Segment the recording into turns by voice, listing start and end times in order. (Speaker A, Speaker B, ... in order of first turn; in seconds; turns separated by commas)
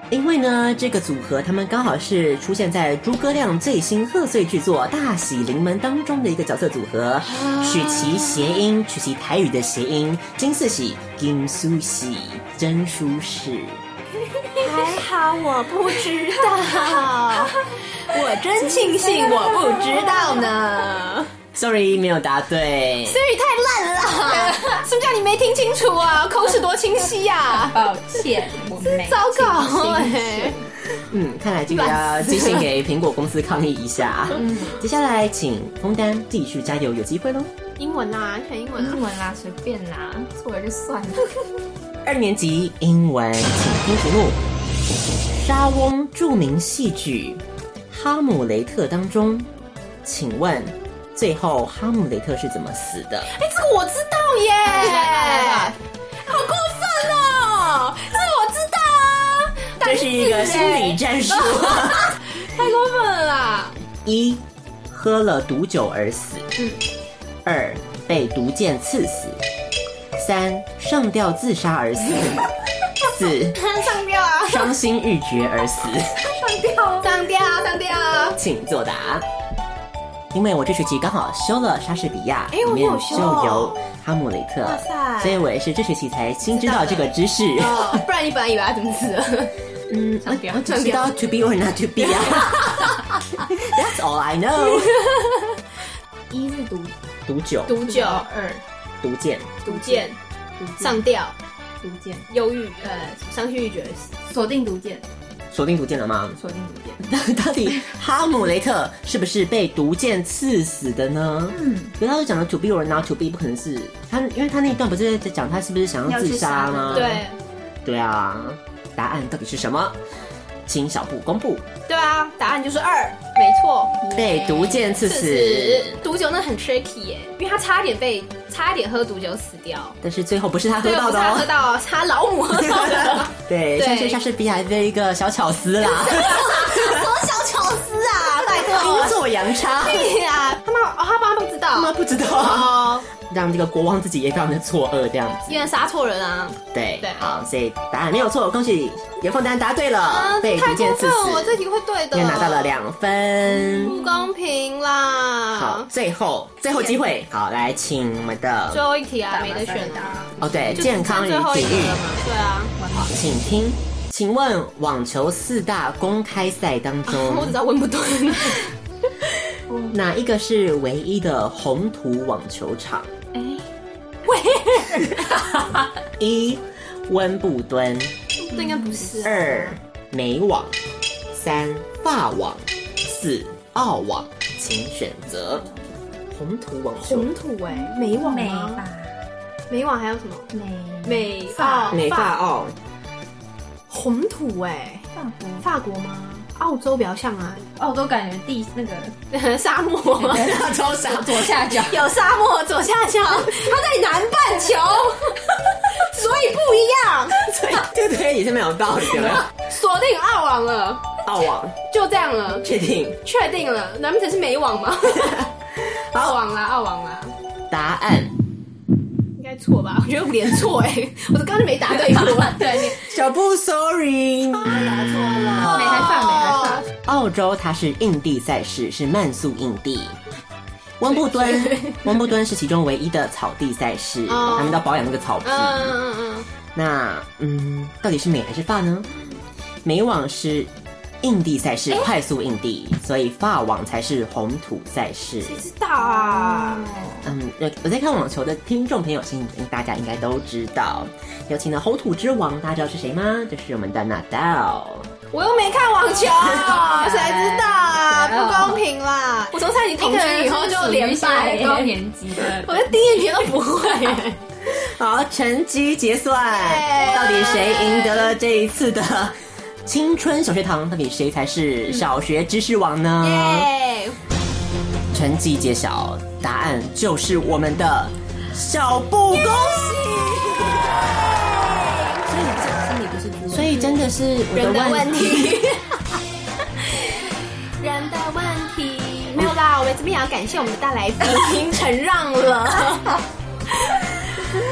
Speaker A: 0.1-13.8, Speaker B: 7.2-8.5, Speaker B: 14.5-21.3, Speaker C: 18.8-20.4, Speaker A: 21.5-23.2, Speaker B: 23.0-27.8, Speaker C: 27.5-30.6, Speaker B: 28.8-30.6, Speaker A: 31.0-37.5, Speaker B: 31.7-32.6, Speaker C: 34.4-34.8, Speaker B: 37.8-39.0, Speaker C: 38.8-41.4, Speaker A: 42.0-44.4, Speaker A: 45.3-49.5, Speaker A: 50.0-53.3, Speaker B: 53.3-63.7, Speaker C: 54.6-55.8, Speaker A: 59.8-62.2, Speaker A: 64.0-66.5, Speaker A: 67.4-69.4, Speaker A: 70.1-72.5, Speaker A: 73.0-73.7, Speaker B: 73.5-74.7, Speaker A: 74.5-76.2, Speaker C: 76.2-77.2, Speaker B: 77.0-78.4, Speaker A: 78.4-79.2, Speaker A: 80.3-88.0, Speaker B: 82.5-83.9, Speaker B: 84.6-85.5, Speaker B: 86.4-89.5, Speaker A: 89.9-95.1, Speaker C: 90.2-91.1, Speaker B: 94.9-95.4, Speaker C: 96.3-96.9, Speaker A: 97.2-97.8, Speaker B: 97.7-98.3, Speaker C: 97.8-98.6, Speaker A: 99.0-99.5, Speaker B: 99.6-100.2, Speaker C: 99.7-101.0, Speaker B: 100.8-101.3, Speaker C: 101.8-102.3, Speaker B: 102.3-104.1, Speaker C: 104.2-105.1, Speaker A: 105.5-106.4, Speaker C: 106.4-107.0, Speaker A: 107.0-117.2, Speaker C: 111.5-111.9, Speaker C: 116.1-117.2, Speaker B: 116.9-117.4, Speaker A: 117.8-120.0, Speaker A: 120.7-121.7, Speaker B: 121.9-124.0, Speaker C: 124.0-124.9, Speaker A: 124.1-126.0, Speaker B: 125.0-130.0, Speaker A: 130.0-131.5, Speaker B: 130.8-134.2, Speaker A: 132.7-137.1, Speaker B: 135.9-143.1, Speaker A: 138.3-140.2, Speaker A: 141.7-145.7, Speaker B: 145.5-147.3, Speaker A: 146.7-151.6, Speaker B: 150.0-152.8, Speaker A: 152.1-153.9, Speaker C: 153.7-154.3, Speaker B: 153.8-155.9, Speaker A: 155.5-158.8, Speaker B: 158.7-162.8, Speaker C: 159.3-160.8, Speaker A: 160.4-162.1, Speaker C: 162.8-163.5, Speaker A: 162.9-167.6, Speaker B: 167.1-168.7, Speaker C: 169.7-169.9, Speaker A: 169.9-173.1, Speaker C: 173.3-173.7, Speaker B: 174.2-175.4, Speaker A: 176.2-178.1, Speaker B: 178.4-179.8, Speaker C: 178.6-178.9, Speaker A: 179.2-180.8, Speaker A: 181.3-185.7, Speaker C: 185.4-185.8, Speaker A: 186.3-187.3, Speaker B: 187.0-188.8, Speaker C: 187.7-189.1, Speaker B: 189.7-190.5, Speaker C: 190.5-192.0, Speaker B: 191.0-192.4, Speaker A: 191.9-192.8, Speaker B: 193.9-195.0, Speaker C: 195.1-195.6, Speaker B: 195.6-197.7, Speaker C: 197.8-199.2, Speaker B: 199.3-200.7, Speaker C: 200.2-202.0, Speaker A: 200.5-201.3, Speaker B: 201.5-207.6, Speaker A: 207.7-209.5, Speaker B: 209.3-211.2, Speaker A: 211.2-211.8, Speaker B: 211.8-212.7, Speaker A: 212.6-213.2, Speaker B: 213.2-215.5, Speaker B: 216.1-217.3, Speaker A: 217.7-218.3, Speaker B: 219.4-222.9, Speaker C: 222.6-222.8, Speaker A: 222.9-226.1, Speaker B: 224.7-226.8, Speaker C: 225.6-226.8, Speaker A: 227.0-230.2, Speaker A: 231.0-235.9, Speaker B: 231.1-232.0, Speaker B: 234.3-234.8, Speaker B: 235.4-236.5, Speaker A: 236.7-239.1, Speaker A: 239.8-245.6, Speaker B: 245.4-246.9, Speaker C: 246.1-247.2, Speaker A: 247.2-255.1, Speaker B: 255.3-264.4, Speaker C: 256.7-258.8, Speaker C: 259.9-263.1, Speaker A: 264.7-273.7, Speaker B: 266.5-268.3, Speaker B: 273.2-274.1, Speaker A: 275.1-280.9, Speaker B: 279.8-282.2, Speaker C: 282.2-284.0, Speaker A: 283.5-285.6, Speaker B: 284.5-285.9, Speaker B: 286.8-287.2, Speaker B: 287.8-293.2, Speaker B: 293.7-294.1